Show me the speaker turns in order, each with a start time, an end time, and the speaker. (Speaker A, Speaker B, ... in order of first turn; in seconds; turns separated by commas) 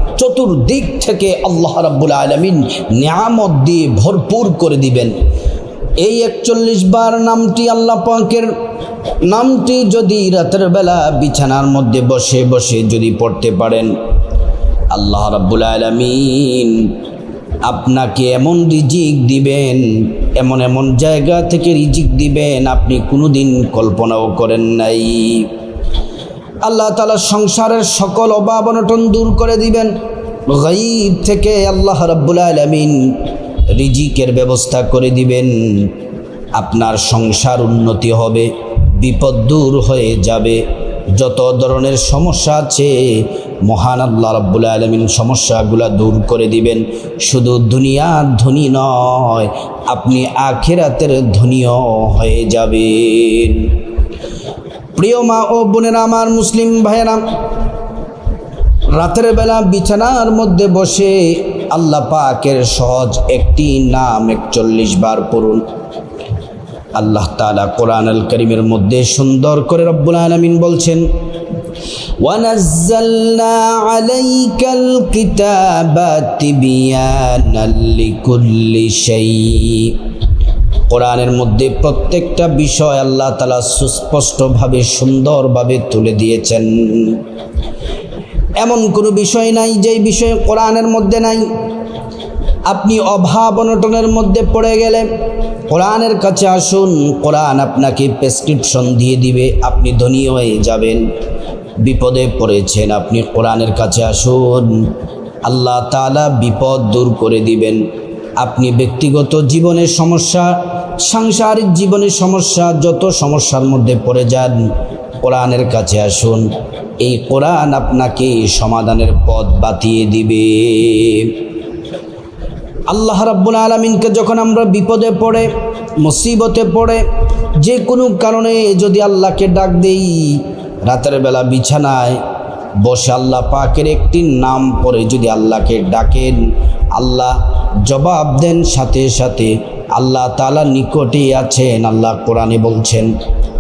Speaker A: 0.2-5.2, Speaker A: 6.0-8.5, Speaker A: 9.2-13.9, Speaker A: 14.9-16.9, Speaker A: 17.6-25.5, Speaker A: 26.6-29.9, Speaker A: 30.5-33.0, Speaker A: 33.8-35.9, Speaker A: 36.6-40.6, Speaker A: 41.1-53.7, Speaker A: 55.0-57.2, Speaker A: 59.0-65.6, Speaker A: 67.0-71.1, Speaker A: 72.2-80.0, Speaker A: 80.9-87.2, Speaker A: 88.6-91.5, Speaker A: 92.7-95.1, Speaker A: 95.7-101.0, Speaker A: 101.8-104.8, Speaker A: 105.5-107.8, Speaker A: 108.4-114.6, Speaker A: 115.2-116.5, Speaker A: 117.0-121.4, Speaker A: 122.9-125.5, Speaker A: 126.0-127.0, Speaker A: 127.6-132.2, Speaker A: 132.8-136.4, Speaker A: 136.9-143.1